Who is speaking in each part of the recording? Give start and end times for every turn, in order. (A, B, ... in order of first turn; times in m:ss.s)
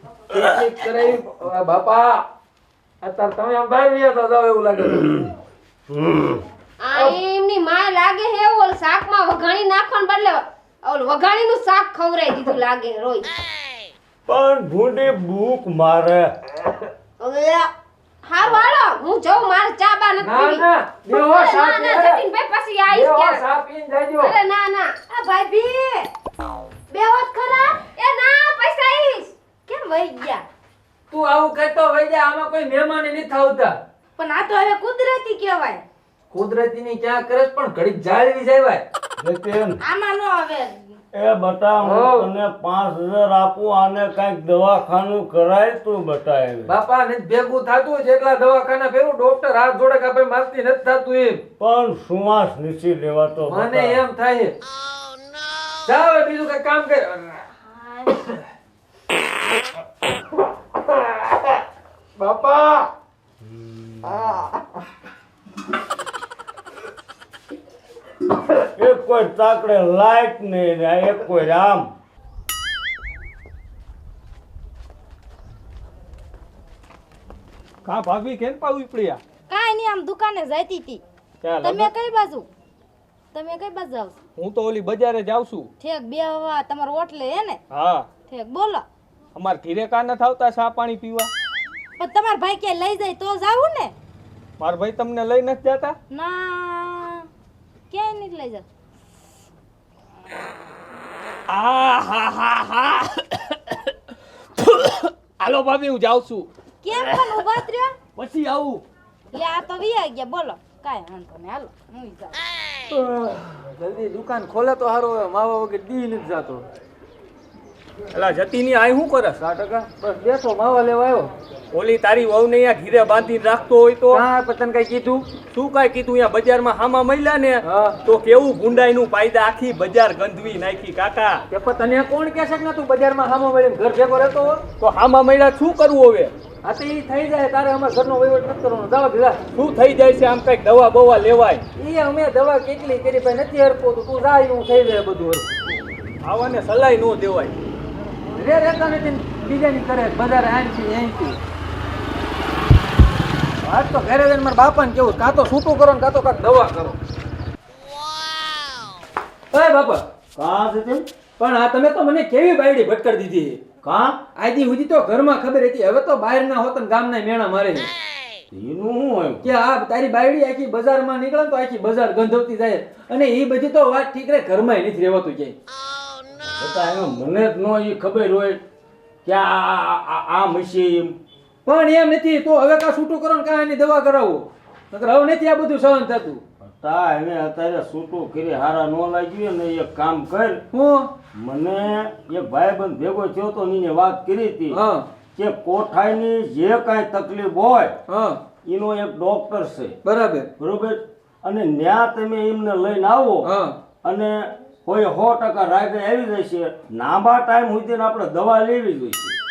0:00.3-0:02.2 A
0:03.0-0:05.3 A
0:05.9-0:06.4 B
0:06.8-0:13.3 C
0:14.3-0:16.3 B
0:17.2-0:17.7 C
0:18.2-0:23.4 C
0:20.2-0:22.2 A
0:22.9-0:24.3 A
0:24.2-0:24.9 C
0:25.1-0:26.1 D
0:26.9-0:27.8 D
0:27.9-0:29.3 C
0:29.7-0:30.4 D
0:31.1-0:33.8 A
0:34.2-0:35.8 D
0:36.3-0:38.8 A
0:39.2-0:39.8 B
0:39.8-0:41.0 D
0:41.1-0:46.7 B
0:41.8-0:42.3 A
0:46.7-0:51.4 A
0:51.6-0:54.0 B
0:53.5-0:54.6 A
0:55.9-0:57.5 A
1:02.2-1:02.9 A
1:08.8-1:11.9 B
1:17.8-1:19.2 E
1:19.5-1:21.0 D
1:21.4-1:21.9 E
1:21.6-1:22.5 D
1:23.3-1:24.1 D
1:24.4-1:25.7 E
1:25.8-1:27.6 D
1:27.7-1:28.1 E
1:28.2-1:28.8 D
1:29.4-1:31.3 E
1:32.0-1:33.9 D
1:34.6-1:36.0 E
1:36.1-1:37.3 D
1:37.9-1:38.6 D
1:41.5-1:43.4 E
1:44.8-1:46.5 E
1:46.8-1:48.0 D
1:48.2-1:48.8 E
1:49.3-1:52.4 D
1:52.9-1:56.6 A
1:58.1-1:59.4 E
1:59.4-2:01.3 A
2:01.7-2:04.2 E
2:04.1-2:05.3 A
2:05.5-2:11.4 E
2:07.6-2:08.0 A
2:11.5-2:14.6 A
2:14.8-2:16.3 E
2:16.6-2:19.4 A
2:19.5-2:21.6 E
2:21.8-2:25.5 A
2:26.2-2:27.5 E
2:28.3-2:31.4 A
2:33.6-2:37.0 A
2:39.5-2:40.0 A
2:40.3-2:41.0 B
2:41.4-2:43.6 A
2:43.8-2:44.2 B
2:44.4-2:47.9 A
2:48.5-2:49.5 B
2:49.4-2:55.5 A
2:56.4-2:58.6 B
2:59.2-3:01.2 B
3:01.6-3:06.4 A
3:06.6-3:10.6 B
3:10.7-3:11.1 A
3:11.3-3:14.8 B
3:14.7-3:15.0 A
3:15.4-3:17.9 B
3:18.1-3:18.4 A
3:18.6-3:19.9 B
3:20.0-3:20.5 A
3:20.6-3:23.5 B
3:23.4-3:23.7 A
3:24.0-3:29.4 B